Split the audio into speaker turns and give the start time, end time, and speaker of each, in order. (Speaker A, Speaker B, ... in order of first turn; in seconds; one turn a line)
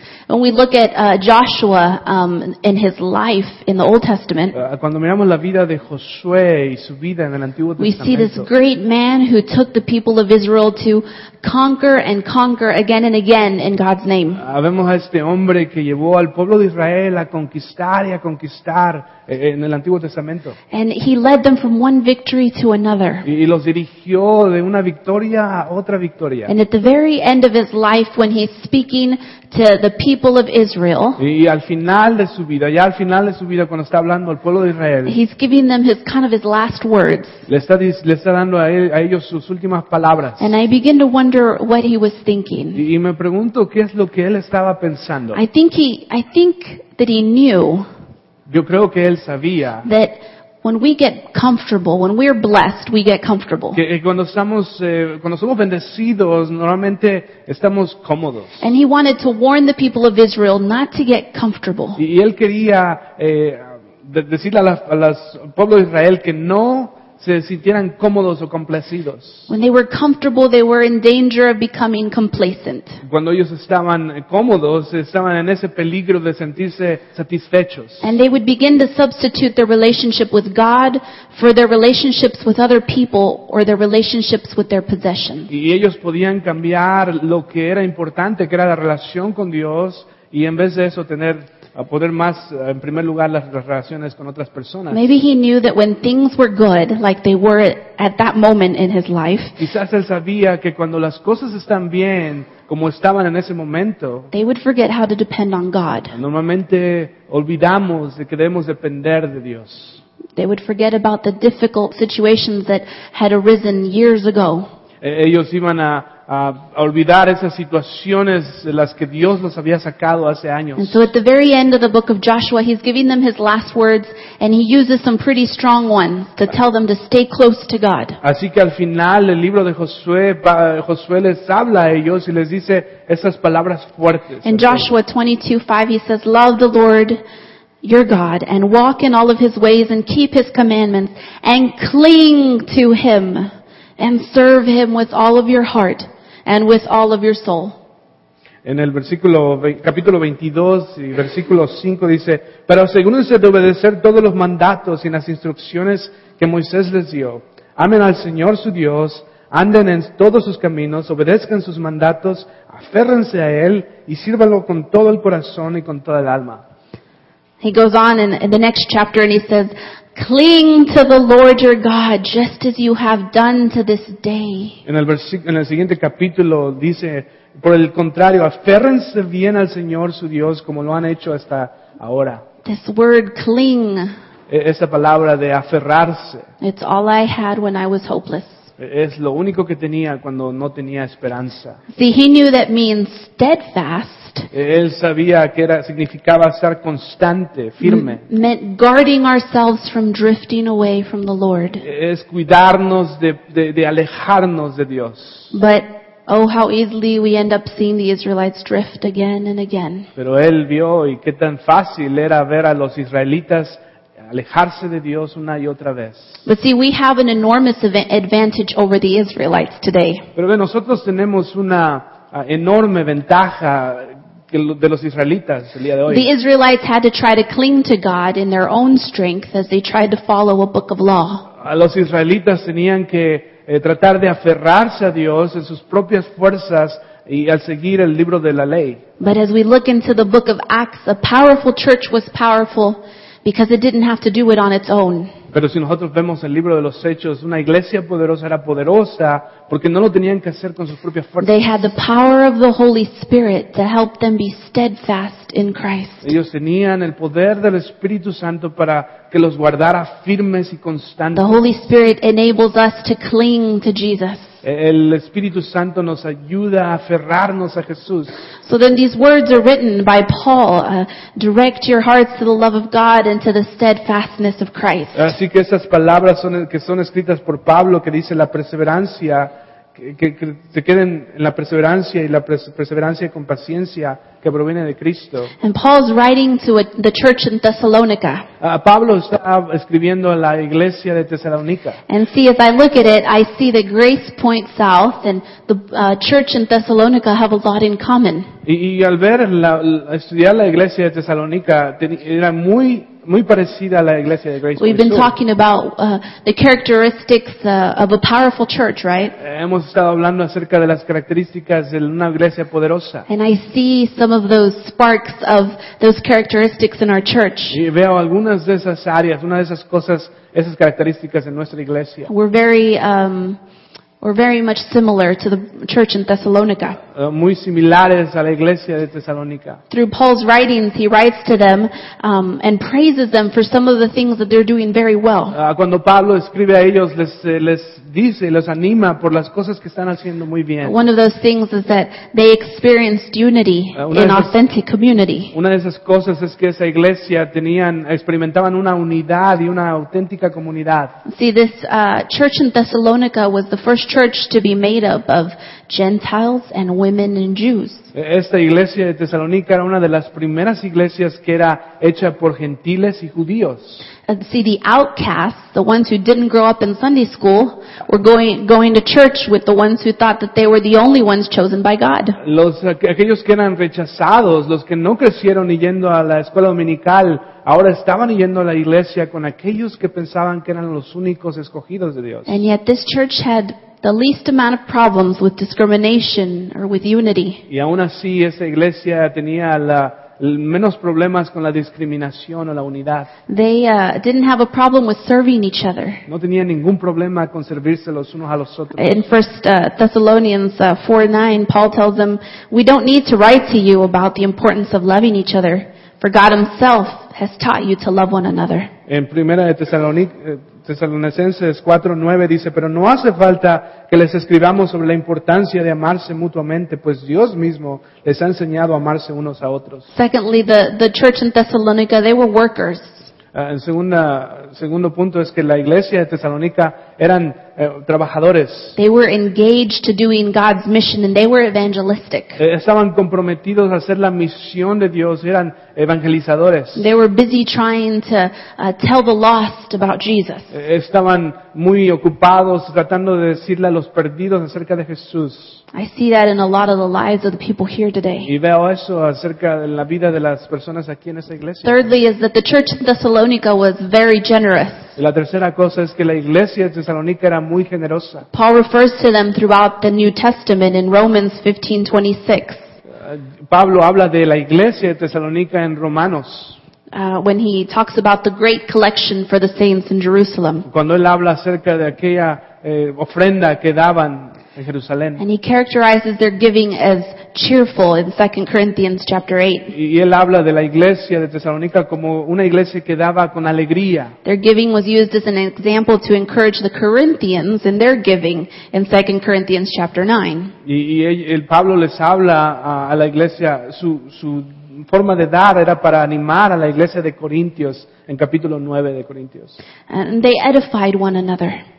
Speaker A: 0.3-4.5
Speaker B: 4.5-8.5
Speaker A: 7.8-14.4
Speaker B: 14.4-20.6
Speaker A: 20.7-23.2
Speaker B: 23.2-26.5
Speaker A: 26.5-31.2
Speaker B: 31.2-35.2
Speaker A: 35.0-37.4
Speaker B: 37.5-40.5
Speaker A: 40.4-42.8
Speaker B: 42.7-45.4
Speaker A: 45.3-47.9
Speaker B: 48.5-49.9
Speaker A: 49.8-53.8
Speaker B: 53.7-58.6
Speaker A: 58.6-62.0
Speaker B: 62.0-69.5
Speaker A: 69.5-73.0
Speaker B: 73.0-78.2
Speaker A: 78.0-85.5
Speaker B: 85.5-95.0
Speaker A: 94.9-99.6
Speaker B: 99.6-104.3
Speaker A: 104.3-106.2
Speaker B: 106.1-110.0
Speaker A: 110.3-114.7
Speaker B: 115.0-121.1
Speaker A: 120.8-128.2
Speaker B: 128.2-134.9
Speaker A: 134.4-137.2
Speaker A: 137.8-147.8
Speaker B: 148.6-166.6
Speaker A: 167.6-174.8
Speaker B: 174.8-182.4
Speaker A: 182.6-184.1
Speaker B: 184.5-186.5
Speaker A: 186.6-188.6
Speaker B: 188.8-191.8
Speaker A: 191.9-194.5
Speaker B: 194.5-198.2
Speaker A: 197.8-201.8
Speaker B: 201.8-205.5
Speaker A: 205.5-210.1
Speaker B: 210.2-216.4
Speaker A: 216.4-220.2
Speaker B: 220.3-226.3
Speaker A: 226.1-231.5
Speaker B: 231.6-239.0
Speaker A: 239.2-245.3
Speaker B: 245.5-251.6
Speaker A: 251.4-256.3
Speaker B: 256.2-261.6
Speaker A: 261.4-264.6
Speaker B: 264.6-268.3
Speaker A: 268.6-275.3
Speaker B: 275.1-285.5
Speaker A: 285.6-288.4
Speaker B: 288.6-292.0
Speaker A: 292.1-298.5
Speaker B: 298.6-305.3
Speaker A: 304.8-309.4
Speaker B: 309.4-313.3
Speaker A: 313.3-317.8
Speaker B: 317.7-322.3
Speaker A: 322.3-323.6
Speaker A: 324.2-327.0
Speaker B: 327.1-329.8
Speaker A: 329.9-335.6
Speaker B: 335.5-341.0
Speaker A: 340.8-345.5
Speaker B: 343.9-344.6
Speaker B: 345.5-351.1
Speaker A: 351.2-358.1
Speaker B: 358.1-364.0
Speaker A: 364.3-372.4
Speaker B: 372.4-382.6
Speaker A: 382.5-387.6
Speaker B: 387.7-393.3
Speaker A: 393.5-396.2
Speaker B: 396.3-399.2
Speaker A: 399.0-408.9
Speaker B: 409.1-420.0
Speaker A: 420.1-423.3
Speaker B: 423.5-429.0
Speaker A: 429.0-432.6
Speaker B: 432.6-437.1
Speaker A: 436.9-440.7
Speaker B: 440.7-445.8
Speaker A: 445.9-448.5
Speaker B: 448.4-452.1
Speaker A: 451.8-455.1
Speaker B: 455.1-458.4
Speaker A: 458.5-462.8
Speaker B: 463.1-466.8
Speaker A: 467.1-470.9
Speaker B: 470.9-475.4
Speaker A: 475.4-479.9
Speaker B: 479.9-484.3
Speaker A: 484.4-490.7
Speaker B: 490.8-499.8
Speaker A: 500.1-501.8